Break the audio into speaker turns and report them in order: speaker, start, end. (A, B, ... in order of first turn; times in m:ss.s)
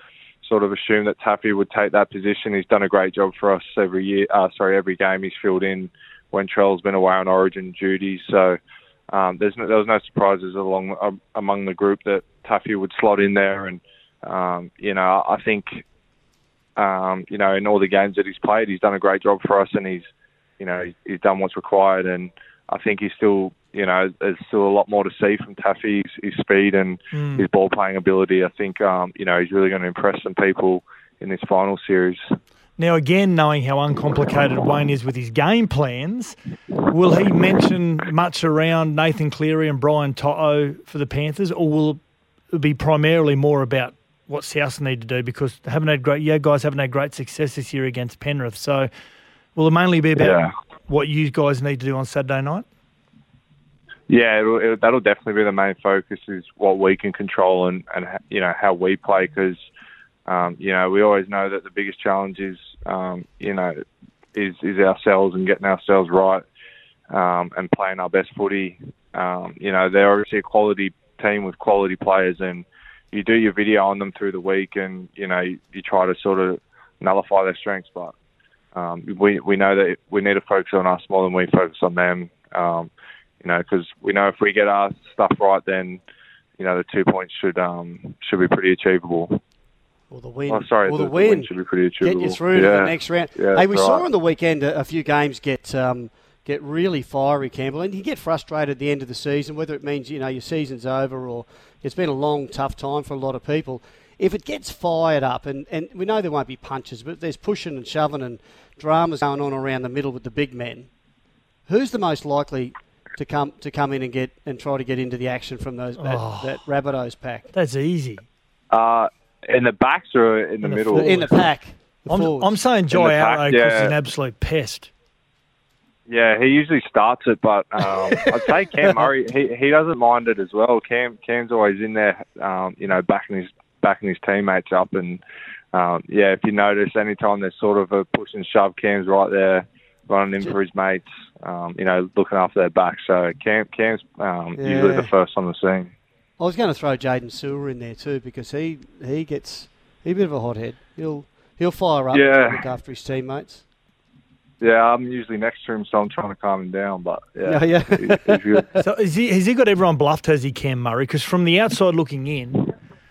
0:00.4-0:08.6 A
0:09.1-0:15.8 A
0:16.8-0:20.1 A
0:20.6-0:32.2 A
0:27.1-0:27.4 B
0:32.8-0:48.9 B
0:49.6-0:52.6 B
0:50.2-0:50.5 A
0:54.1-0:59.6 A
1:00.3-1:03.8 A
1:04.3-1:06.4 A
1:07.1-1:18.1 A
1:18.7-1:22.9 A
1:23.4-1:26.0 A
1:26.6-1:29.4 A
1:30.1-1:31.5 C
1:30.5-1:34.0 A
1:32.0-1:50.9 C
1:51.7-1:57.5 C
1:56.0-1:56.6 B
1:57.5-1:58.2 B
1:58.7-2:01.3 A
2:00.6-2:01.3 B
2:00.9-2:02.6 C
2:02.1-2:04.9 B
2:02.9-2:03.9 A
2:06.1-2:15.2 A
2:15.7-2:25.9 A
2:24.6-2:25.1 C
2:26.4-2:33.6 C
2:32.1-2:32.6 A
2:34.6-2:38.7 A
2:37.4-2:38.8 C
2:38.8-2:42.7 B